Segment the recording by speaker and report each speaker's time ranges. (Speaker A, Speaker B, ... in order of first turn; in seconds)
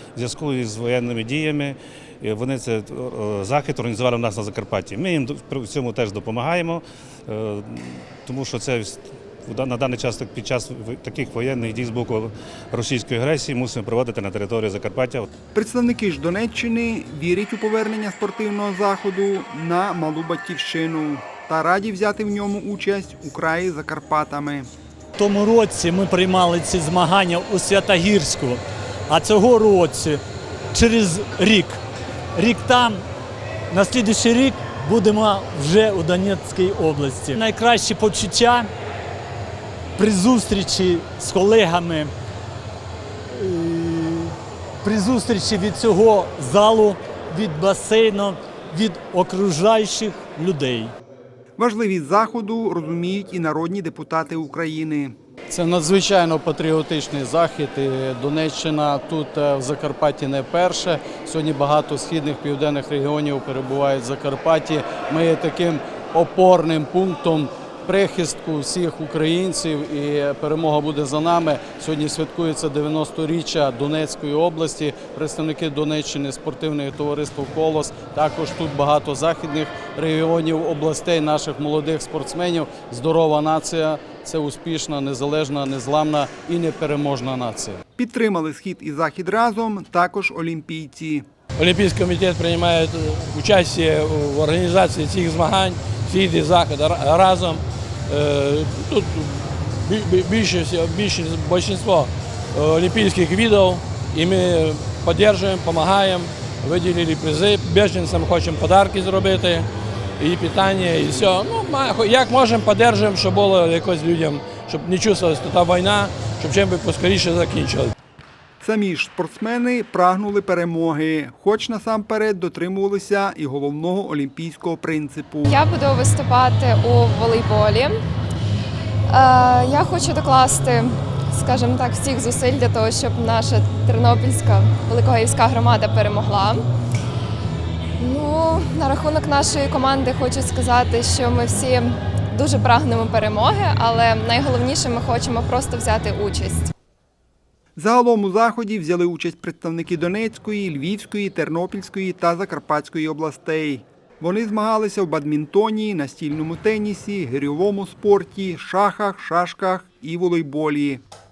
Speaker A: 0.1-15.3
Speaker B: 15.5-24.7, 51.6-55.1, 88.0-91.2, 118.6-125.5, 147.8-161.0
Speaker C: 25.2-30.2, 30.7-31.8, 32.3-33.0, 33.7-38.7, 40.0-42.1, 43.3-50.9
Speaker D: 55.5-87.8
Speaker E: 91.6-109.7, 110.2-117.9
Speaker F: 125.5-128.0, 129.1-136.6, 138.0-146.7